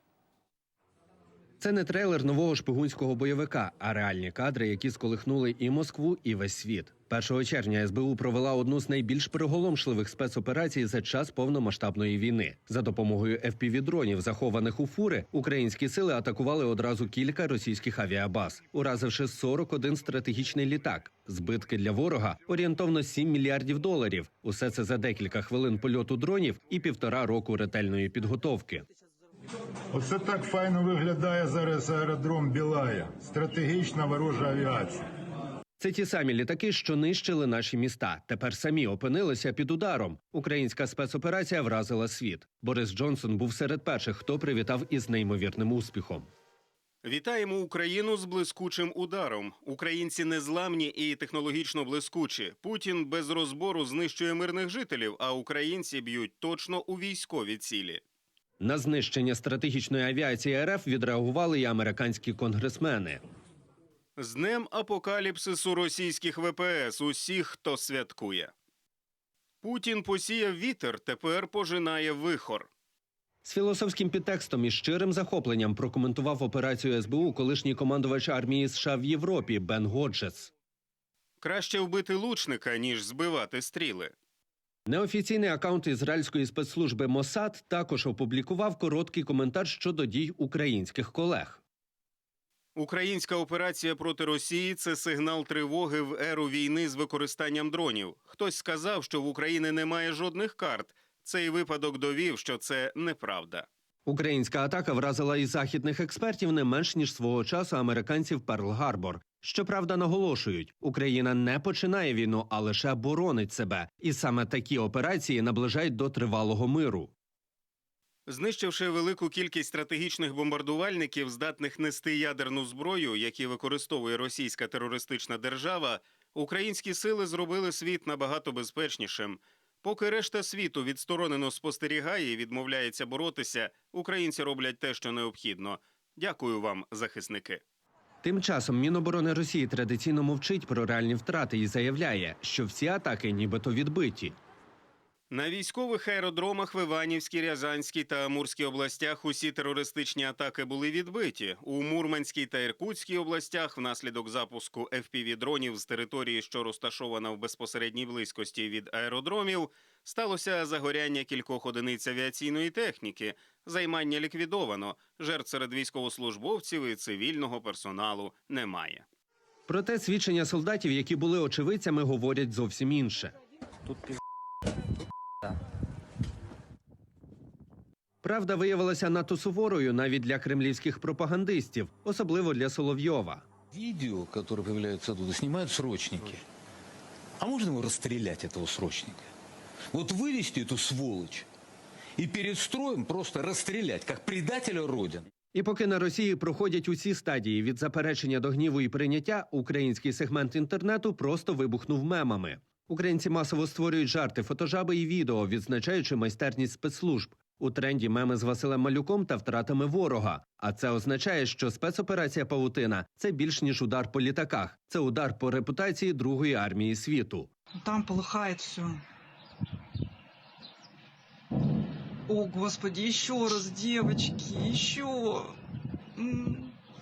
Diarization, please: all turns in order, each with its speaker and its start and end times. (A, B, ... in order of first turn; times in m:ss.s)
0:01.6-0:28.9 A
0:29.9-0:35.0 B
0:35.8-0:46.3 A
0:47.0-0:58.0 C
0:58.6-1:03.2 A
1:04.2-1:08.5 C
1:09.6-1:12.7 C
1:13.4-1:20.5 A
1:21.4-1:24.1 C
1:24.9-1:31.6 A
1:32.8-1:43.7 C
1:44.1-1:57.1 A
1:58.3-2:17.6 C
2:18.2-2:24.4 A
2:25.3-2:49.1 C
2:49.7-2:53.3 A
2:58.2-3:03.4 A
3:03.7-3:06.4 D
3:07.4-3:09.3 D
3:09.9-3:11.5 D
3:12.2-3:15.3 D
3:15.5-3:37.5 A
3:37.8-3:39.0 E
3:42.3-3:45.6 E
3:46.2-3:46.8 E